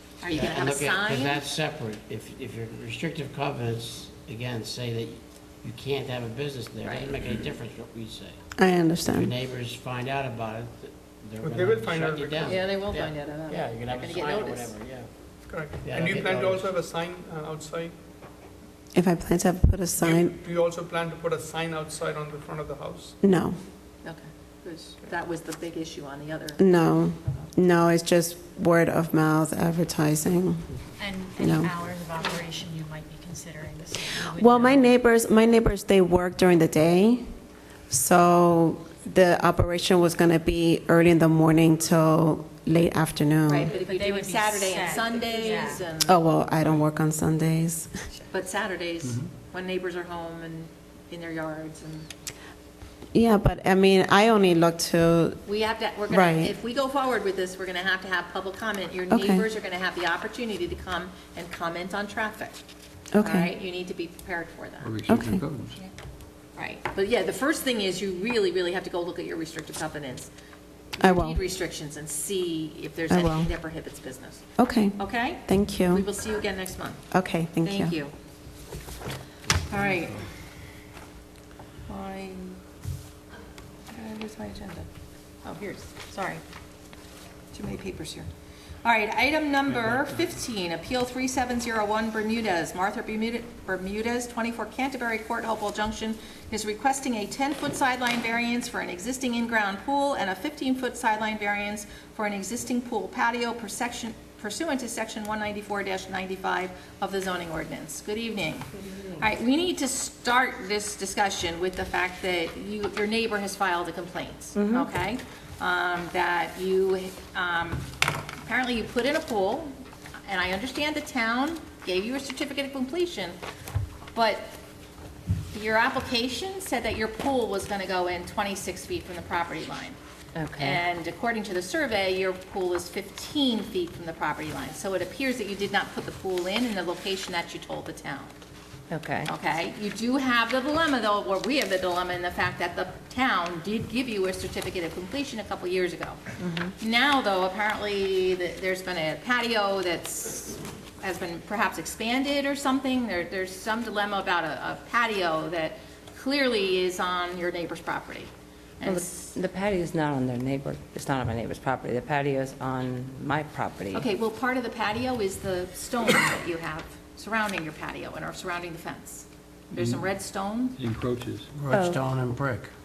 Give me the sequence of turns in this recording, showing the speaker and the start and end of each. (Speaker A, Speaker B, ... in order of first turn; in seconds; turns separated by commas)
Speaker A: 0.2-1.5, Speaker B: 0.3-8.4, Speaker A: 6.8-7.2, Speaker C: 8.6-9.3, Speaker B: 9.1-15.1, Speaker D: 11.4-12.6, Speaker A: 12.4-14.8, Speaker D: 15.5-17.9, Speaker B: 15.8-16.7, Speaker C: 18.9-20.3, Speaker D: 20.0-23.1, Speaker C: 23.2-23.6, Speaker A: 24.0-26.6, Speaker C: 26.6-30.6, Speaker E: 31.0-34.9, Speaker C: 31.4-31.7, Speaker C: 34.3-37.2, Speaker C: 37.9-43.8, Speaker A: 43.5-46.2, Speaker E: 43.7-45.9, Speaker C: 46.0-47.9, Speaker A: 48.3-52.1, Speaker C: 53.1-55.4, Speaker A: 55.5-62.6, Speaker C: 56.1-56.5, Speaker C: 59.1-59.5, Speaker C: 63.1-63.5, Speaker A: 63.2-64.9, Speaker F: 64.8-65.8, Speaker C: 65.1-65.4, Speaker A: 66.6-70.3, Speaker A: 71.0-74.5, Speaker C: 71.0-71.4, Speaker C: 73.1-73.5, Speaker C: 74.6-76.1, Speaker A: 75.0-77.0, Speaker C: 77.1-78.0, Speaker A: 77.6-78.1, Speaker A: 79.7-80.3, Speaker A: 81.9-82.6, Speaker A: 83.9-84.9, Speaker A: 85.4-86.4, Speaker A: 87.5-88.3, Speaker A: 88.8-117.9, Speaker F: 89.8-90.1, Speaker G: 114.6-114.9, Speaker A: 118.4-119.7, Speaker A: 120.3-123.4, Speaker A: 124.1-124.5, Speaker A: 125.5-130.0, Speaker G: 130.4-130.8, Speaker A: 130.6-138.3, Speaker G: 138.9-139.3, Speaker A: 139.3-146.2, Speaker G: 146.4-146.7, Speaker A: 146.8-159.2, Speaker G: 158.8-164.1, Speaker A: 163.9-170.8, Speaker F: 170.8-171.5, Speaker B: 171.6-172.7, Speaker G: 171.7-172.0